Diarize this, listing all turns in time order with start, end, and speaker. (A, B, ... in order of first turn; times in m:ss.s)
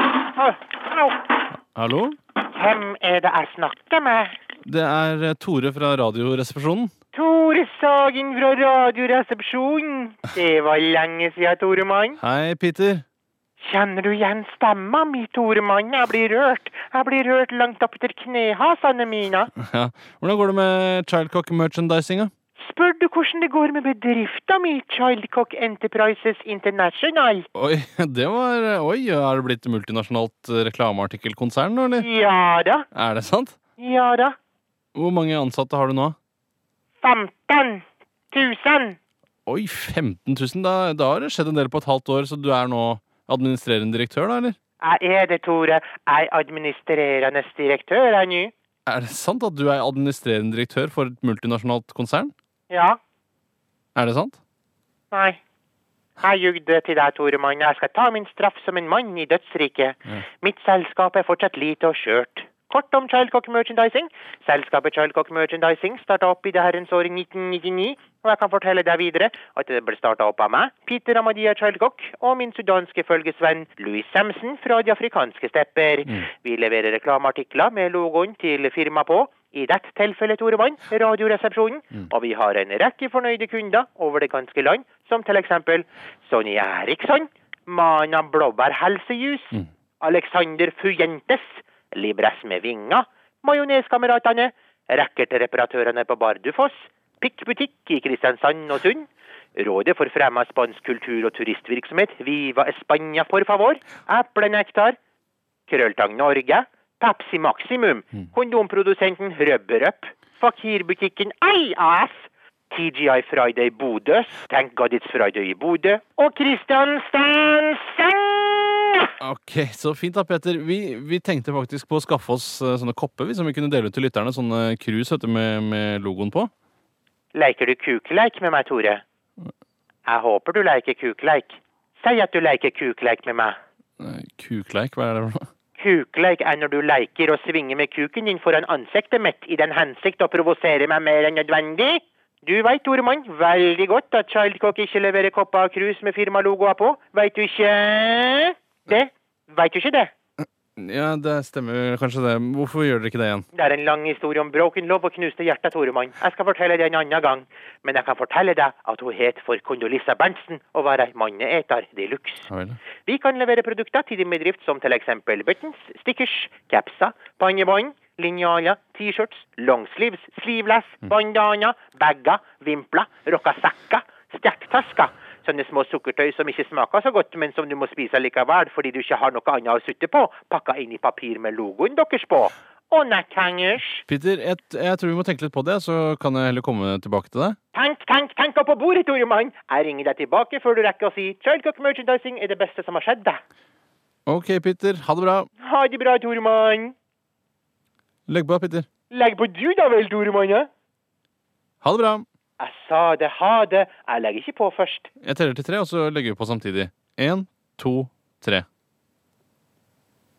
0:00.4-0:01.1 A
0:01.7-0:02.2 B
0:02.5-0:04.3 A
0:04.6-0:06.9 B
0:07.1-0:12.2 A
0:12.2-0:13.0 B
0:13.6-0:19.5 A
0:19.6-0:22.3 B
0:22.6-0:27.5 A
0:27.5-0:32.1 B
0:32.0-0:32.8 A
0:32.9-0:33.6 B
0:33.8-0:34.3 A
0:34.9-0:36.2 B
0:37.0-0:39.0 A
0:39.4-0:44.6 B
0:44.8-0:48.5 A
0:48.8-0:52.3 B
0:52.7-0:53.0 A
0:53.9-0:54.4 B
0:55.1-0:55.4 A
0:56.2-1:45.0 A
1:45.7-1:59.0 A
1:59.2-2:06.5 B
2:07.3-2:09.0 A
2:10.0-2:13.6 A
2:14.0-2:15.5 B
2:15.8-2:30.1 A
2:30.8-2:33.4 B
2:33.5-2:42.5 A
2:42.5-2:42.8 B
2:43.0-3:04.0 A
3:04.1-3:07.6 B
3:07.7-3:13.4 A
3:14.3-3:15.5 B
3:15.6-3:16.9 A
3:18.3-3:18.9 B
3:19.1-3:20.7 A
3:21.8-3:22.2 B
3:22.6-3:25.1 A
3:25.2-3:28.6 B